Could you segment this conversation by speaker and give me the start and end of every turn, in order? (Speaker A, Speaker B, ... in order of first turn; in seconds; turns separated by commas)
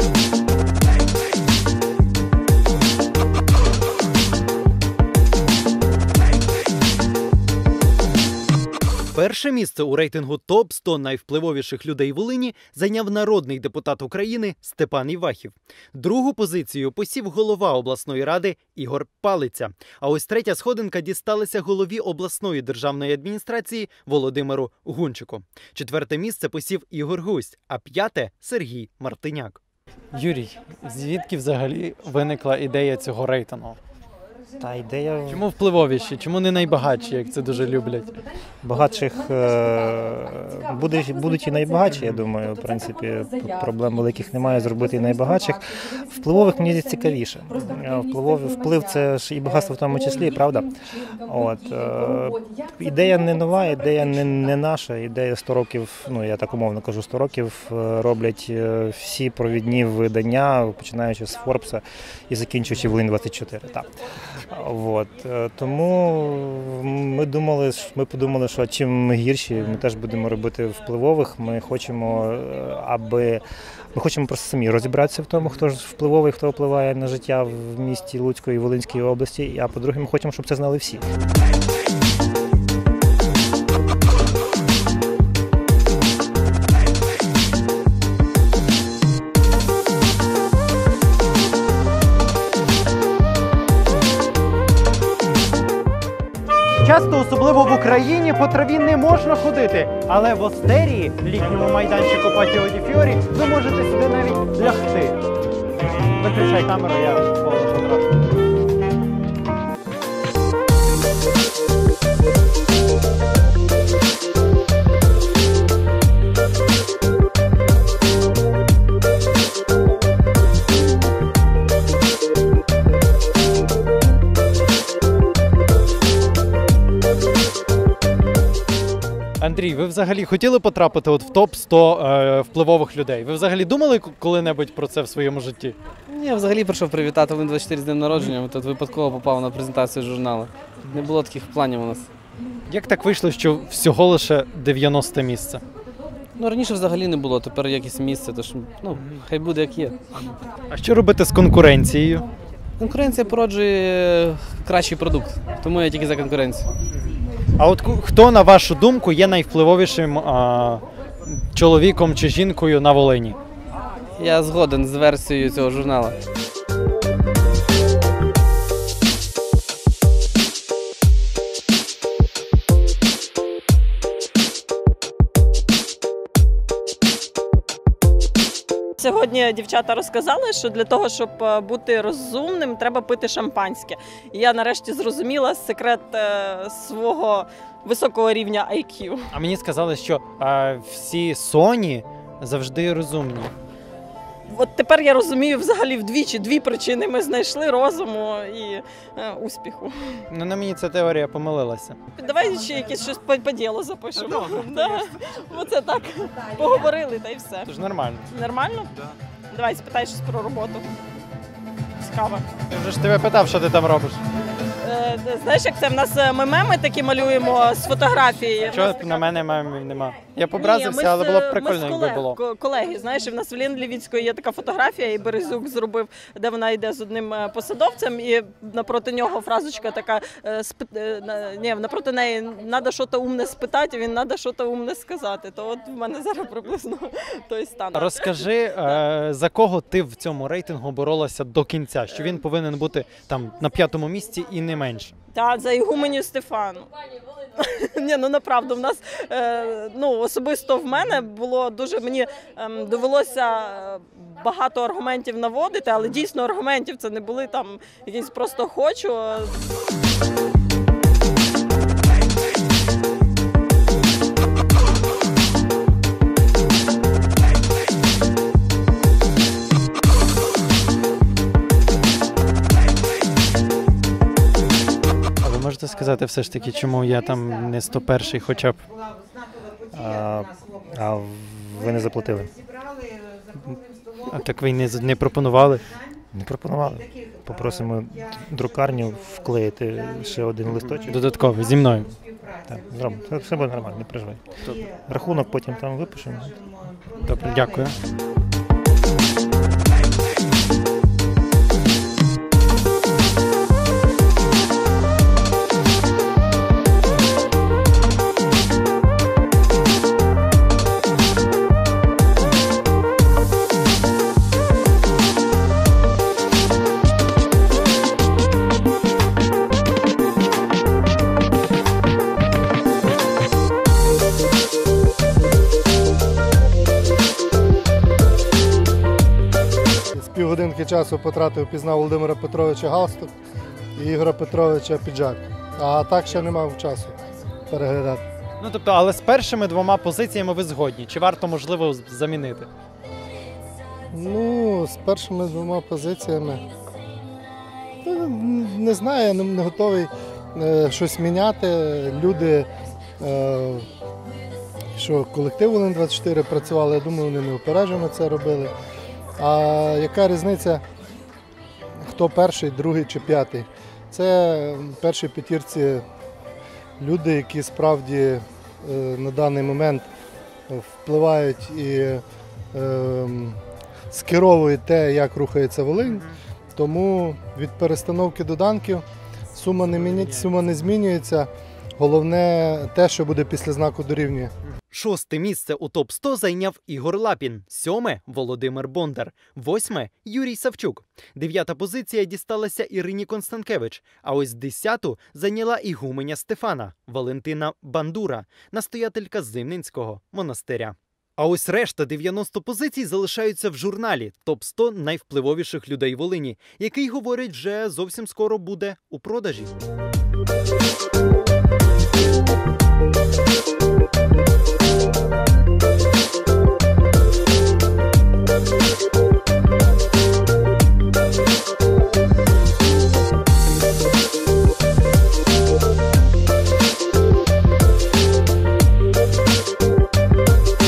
Speaker A: 9.1-29.6, Speaker A: 30.1-33.8, Speaker B: 34.6-35.4, Speaker A: 35.3-38.2, Speaker B: 38.6-50.7, Speaker A: 41.9-42.2, Speaker B: 51.2-63.9, Speaker B: 64.5-81.0, Speaker A: 96.8-105.2, Speaker A: 106.2-108.1, Speaker A: 129.4-135.8, Speaker C: 136.1-142.1, Speaker A: 142.7-145.6, Speaker C: 146.4-149.9, Speaker A: 148.9-149.2, Speaker A: 150.7-152.2, Speaker C: 152.8-156.7, Speaker A: 157.6-163.4, Speaker C: 164.2-166.2, Speaker D: 179.0-189.3, Speaker A: 189.3-193.5, Speaker D: 194.5-200.2, Speaker A: 200.3-202.0, Speaker D: 202.1-207.7, Speaker A: 204.3-205.0, Speaker A: 207.7-208.3, Speaker D: 208.3-208.9, Speaker D: 209.5-210.8, Speaker D: 212.0-212.5, Speaker A: 212.7-214.2, Speaker D: 214.8-218.9, Speaker A: 218.7-222.4, Speaker D: 220.6-239.0, Speaker A: 237.9-245.1, Speaker D: 245.3-246.9, Speaker D: 247.5-259.5, Speaker A: 275.4-278.8, Speaker B: 279.9-282.5, Speaker A: 284.3-285.9, Speaker B: 286.3-291.2, Speaker A: 290.6-292.1, Speaker B: 292.7-294.4, Speaker B: 295.1-296.6, Speaker A: 297.2-297.9, Speaker E: 330.1-333.3, Speaker E: 333.9-337.1, Speaker E: 337.7-338.2, Speaker A: 338.6-342.7, Speaker E: 344.1-346.6, Speaker E: 348.0-353.9, Speaker E: 354.9-358.7, Speaker E: 359.4-360.8, Speaker E: 362.0-366.0, Speaker E: 367.0-370.1, Speaker E: 370.7-373.6, Speaker E: 374.1-384.5, Speaker A: 376.0-376.4, Speaker A: 384.9-409.7